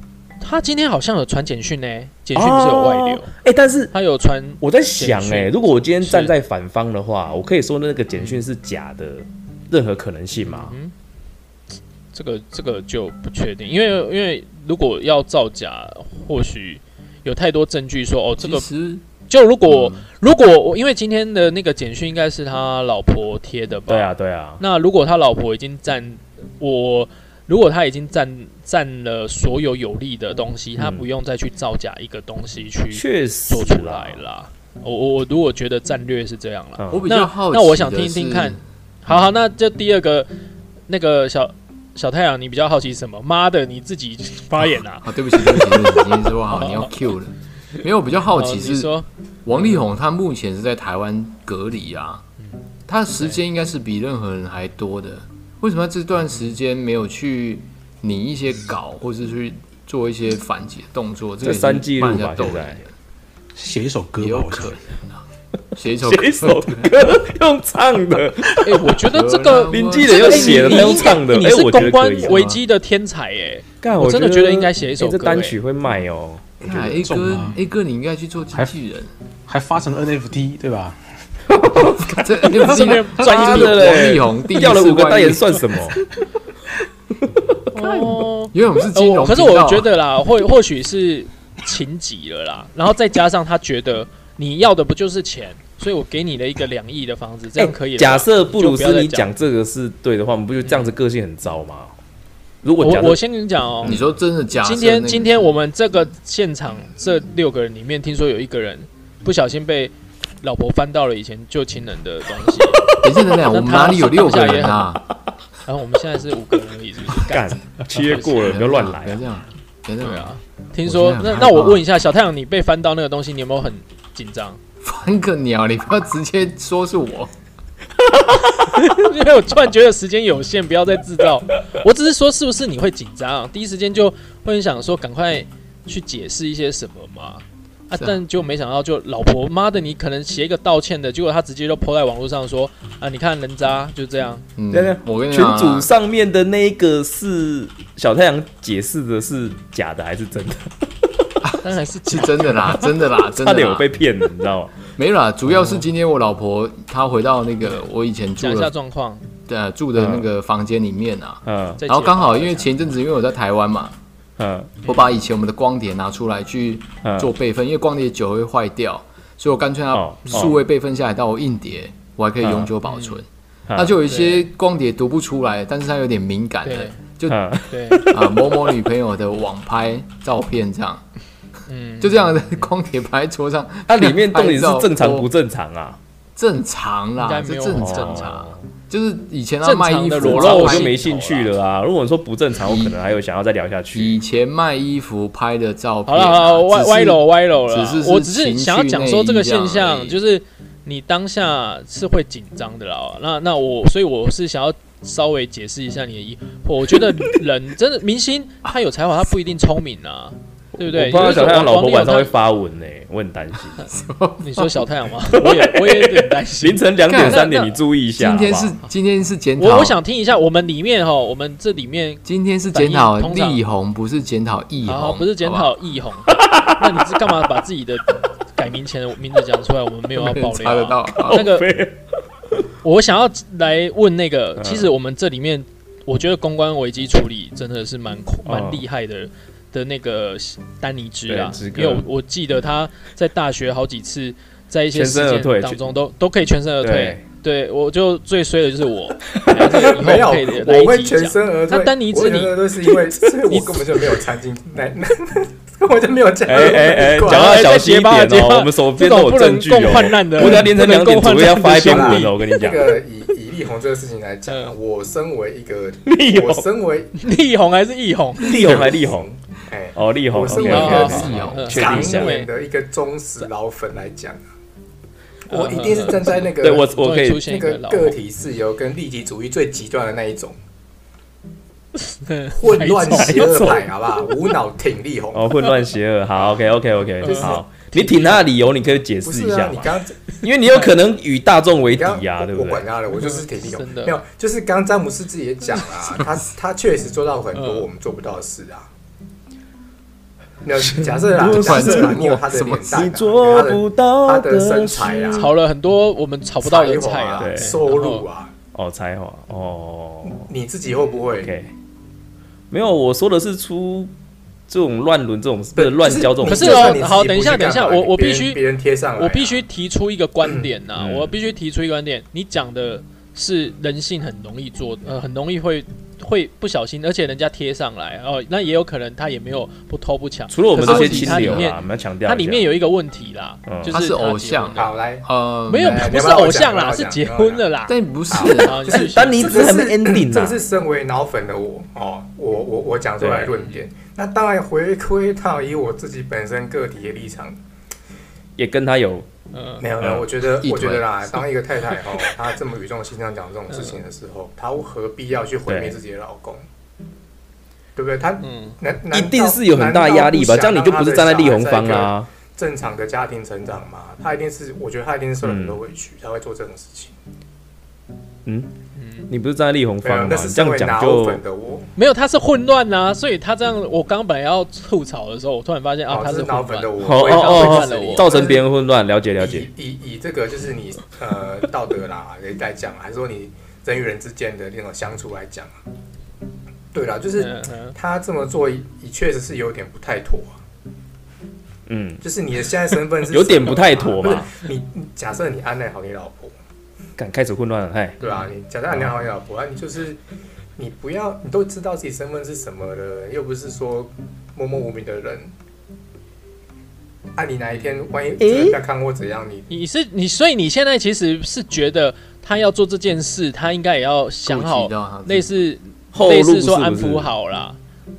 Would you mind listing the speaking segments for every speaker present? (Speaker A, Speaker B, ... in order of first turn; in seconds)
Speaker A: 0.4-3.3, 3.9-6.3, 8.2-8.4, 10.4-10.9, 12.1-18.7, 19.3-40.3, 40.9-46.9, 48.3-49.0, 68.6-75.5, 82.5-83.9, 87.7-99.3, 100.7-100.9, 102.8-104.0, 104.5-115.0, 115.7-118.5, 120.0-124.6, 128.4-144.4, 151.6-152.8, 158.4-159.2, 161.8-162.7, 170.2-170.5, 172.8-173.2, 174.0-174.5, 176.6-177.0, 177.7-178.2, 181.7-182.7, 187.2-188.4, 189.6-191.4, 196.1-212.3, 214.4-217.8, 219.6-223.6, 224.8-231.7, 232.8-252.7, 253.4-253.9, 256.6-262.4, 264.5-264.7, 267.2-268.8, 270.6-272.5, 275.5-278.2, 282.1-283.7, 287.2-288.4, 293.1-294.2, 297.5-297.9, 305.3-308.2, 316.4-318.6, 319.2-334.9, 335.7-339.7, 349.5-349.9, 353.7-354.0, 358.4-358.8, 368.9-369.3, 371.9-378.4, 387.4-388.0, 398.2-398.5, 409.7-417.8
Speaker B: 2.3-3.9, 4.6-10.7, 23.9-24.6, 30.8-31.1, 32.9-34.2, 36.8-37.1, 61.4-62.8, 66.0-68.8, 69.7-72.4, 73.8-76.6, 81.5-86.0, 87.2-88.0, 97.6-101.9, 102.6-103.2, 117.3-119.2, 144.7-150.7, 153.2-154.8, 160.0-160.3, 161.4-161.8, 164.4-164.8, 167.0-167.3, 169.9-170.6, 172.4-172.7, 173.7-174.0, 177.3-178.7, 183.9-186.0, 187.8-188.6, 190.2-194.2, 210.8-213.8, 215.3-218.7, 226.3-226.8, 231.2-232.0, 234.6-234.9, 238.4-238.8, 241.3-242.0, 244.9-245.8, 246.8-247.2, 256.4-263.0, 266.1-266.7, 268.4-269.3, 269.9-272.4, 276.6-277.5, 283.0-283.9, 285.3-292.9, 300.9-305.5, 307.4-307.7, 308.7-310.4, 311.4-311.7, 312.7-314.1, 314.7-317.0, 321.0-321.3, 330.5-332.7, 333.7-333.9, 338.9-340.6, 343.2-343.6, 348.6-349.3, 350.0-350.3, 355.7-356.0, 359.1-362.3, 365.4-365.8, 369.3-371.4, 377.0-379.7, 391.9-392.2, 393.3-394.5, 397.2-398.2, 408.4-408.8, 416.1-417.3
Speaker C: 18.4-19.0, 19.7-20.1, 36.9-38.6, 45.0-48.9, 49.5-52.2, 52.9-62.9, 64.2-65.2, 65.8-66.9, 68.9-71.1, 72.2-72.6, 76.6-79.1, 82.0-86.0, 88.5-89.9, 103.8-105.5, 113.0-115.0, 118.1-121.8, 124.8-127.3, 144.6-145.9, 151.4-153.9, 155.0-158.7, 159.5-163.9, 164.8-177.5, 178.0-181.0, 182.0-185.3, 186.4-191.4, 192.6-192.9, 193.9-200.2, 213.9-214.8, 217.0-217.5, 218.2-220.0, 222.2-225.7, 230.1-231.5, 270.6-271.9, 301.4-303.0, 330.8-331.7, 333.9-336.0, 337.9-339.0, 350.6-351.1, 414.4-415.5
Speaker D: 63.5-64.8, 76.6-77.6, 79.5-81.0
Speaker E: 249.7-257.6, 261.6-267.1, 268.4-274.4, 275.5-280.6, 282.5-285.5, 287.2-287.6, 289.2-290.2, 291.9-298.9, 300.6-305.5, 306.6-308.5, 310.3-311.5, 315.8-319.6, 334.7-337.7, 338.3-347.6, 349.8-356.6, 357.9-367.1, 370.0-371.9, 376.1-378.6, 379.4-385.8, 386.9-390.6, 392.2-396.5, 398.2-400.2, 400.8-405.5, 407.3-409.7